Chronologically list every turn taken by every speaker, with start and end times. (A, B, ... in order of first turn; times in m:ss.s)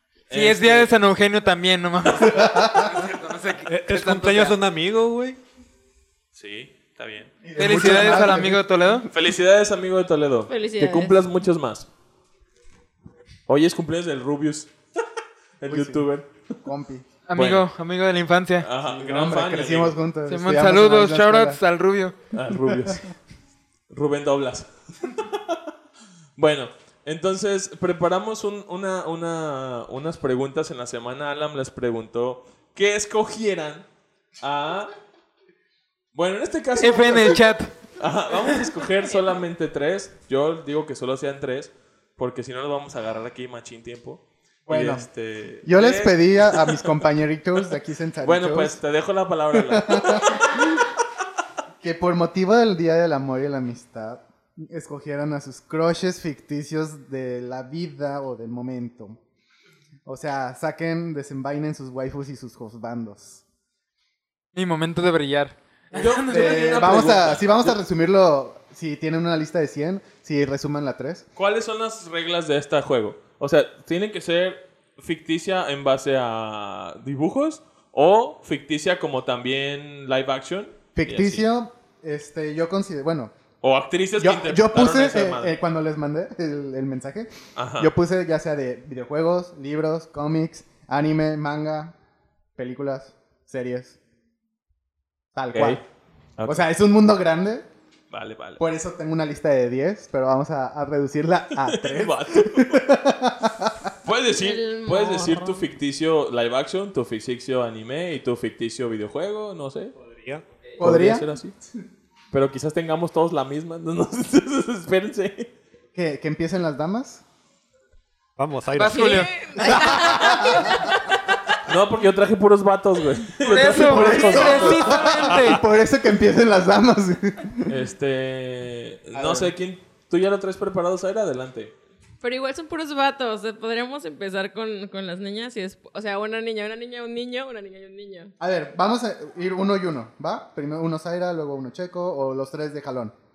0:00.3-0:00.9 A
0:00.3-0:04.6 B
0:02.4-0:02.7 C
0:03.7-0:05.4 D
0:06.3-0:07.3 A
0:07.4-0:08.6 C
0:07.6-0:09.1 B
0:09.1-0:11.9 A
0:10.5-0:11.2 E
0:13.5-0:14.7 A
0:15.6-0:16.3 A
0:15.7-0:16.1 C
0:16.6-0:17.0 C
0:17.3-0:18.7 B
0:17.4-0:17.7 A
0:18.6-0:20.0 A
0:18.8-0:21.6 C
0:20.3-0:22.2 B
0:22.3-0:23.1 A
0:22.7-0:23.0 C
0:23.9-0:25.6 A
0:26.4-0:33.8 A
0:34.4-0:34.9 A
0:36.1-0:37.4 A
0:36.8-0:37.7 B
0:38.0-0:46.9 A
0:44.7-0:45.1 C
0:45.6-0:48.8 C
0:48.2-0:50.7 A
0:49.5-0:50.8 C
0:51.8-0:59.2 C
1:00.0-1:03.4 C
1:04.6-1:06.9 B
1:06.0-1:07.8 A
1:06.3-1:11.2 C
1:11.4-1:21.4 A
1:21.0-1:23.3 C
1:23.6-1:25.5 A
1:24.2-1:32.0 C
1:27.6-1:27.9 A
1:32.6-1:34.0 C
1:35.4-1:35.8 C
1:35.5-1:35.8 A
1:36.4-1:36.6 A
1:36.5-1:37.7 C
1:38.1-1:38.6 A
1:38.6-1:43.9 C
1:41.6-1:42.9 A
1:44.0-1:49.9 A
1:44.3-1:45.7 E
1:50.0-1:50.4 D
1:50.8-1:51.3 C
1:50.8-1:51.6 A
1:52.3-1:55.5 A
1:55.9-1:57.2 C
1:58.4-1:59.2 D
1:58.7-1:59.3 B
1:58.9-2:01.4 E
1:59.6-2:00.9 C
2:01.7-2:05.0 A
2:03.4-2:05.6 B
2:03.7-2:07.8 C
2:07.7-2:11.7 A
2:09.1-2:09.5 C
2:12.2-2:18.3 E
2:18.4-2:23.1 C